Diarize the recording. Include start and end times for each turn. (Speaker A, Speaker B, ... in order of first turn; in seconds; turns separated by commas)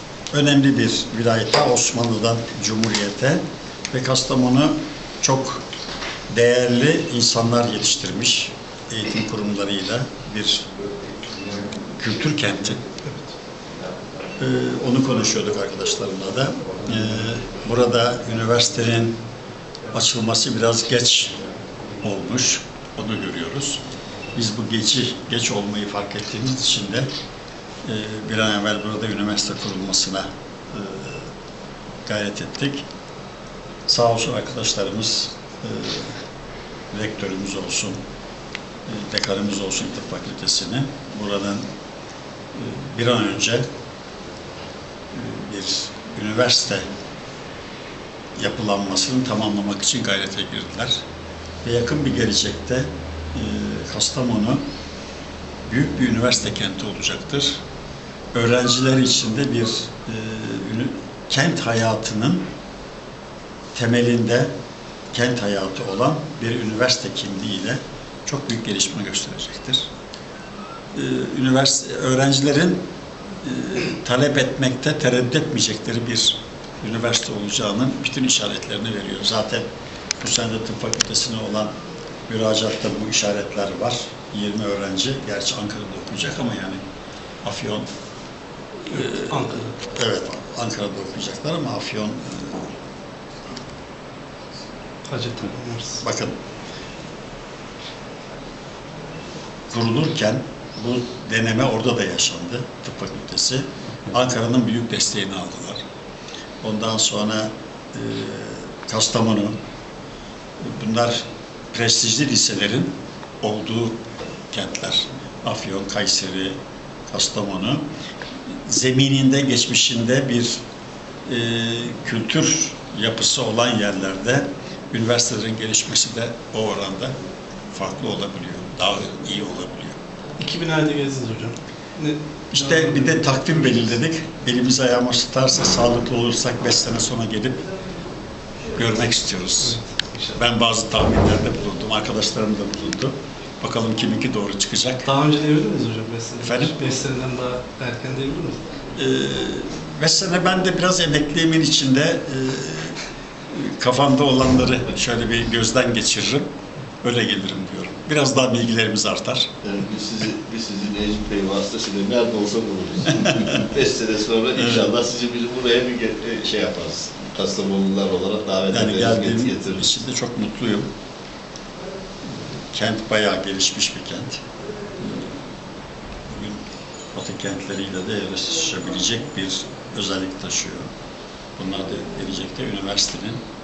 Speaker A: 0.3-5.6, Speaker A: 6.3-10.7, Speaker A: 12.0-12.8, Speaker A: 14.4-19.2, Speaker A: 19.9-21.4, Speaker A: 22.0-23.8, Speaker A: 24.3-27.1, Speaker A: 27.8-31.3, Speaker A: 32.0-32.8, Speaker A: 33.9-36.2, Speaker A: 36.9-38.0, Speaker A: 38.9-41.6, Speaker A: 42.5-43.7, Speaker A: 45.1-46.9, Speaker A: 48.4-51.0, Speaker A: 51.6-54.6, Speaker A: 55.6-57.6, Speaker A: 58.3-62.4, Speaker A: 63.7-64.5, Speaker A: 65.1-69.9, Speaker A: 70.9-72.8, Speaker A: 73.4-79.7, Speaker A: 80.2-81.7, Speaker A: 82.3-86.8, Speaker A: 87.4-87.9, Speaker A: 88.8-92.7, Speaker B: 88.9-89.7, Speaker B: 95.0-96.0, Speaker A: 96.0-96.4, Speaker A: 99.7-105.8, Speaker A: 106.6-109.5, Speaker A: 110.6-116.5, Speaker A: 117.1-117.8, Speaker A: 118.7-120.6, Speaker A: 121.2-127.1, Speaker A: 127.7-130.0, Speaker B: 130.4-133.8, Speaker A: 132.5-137.7, Speaker A: 138.8-139.8, Speaker B: 139.6-140.4, Speaker A: 140.3-145.1, Speaker B: 145.1-148.6, Speaker A: 146.4-146.8, Speaker A: 148.9-153.0, Speaker A: 153.5-156.5, Speaker A: 157.0-159.5, Speaker C: 159.6-169.9, Speaker A: 164.6-164.9, Speaker A: 168.7-170.9, Speaker A: 172.3-174.4, Speaker A: 175.0-175.3, Speaker A: 176.3-180.9, Speaker A: 181.6-183.4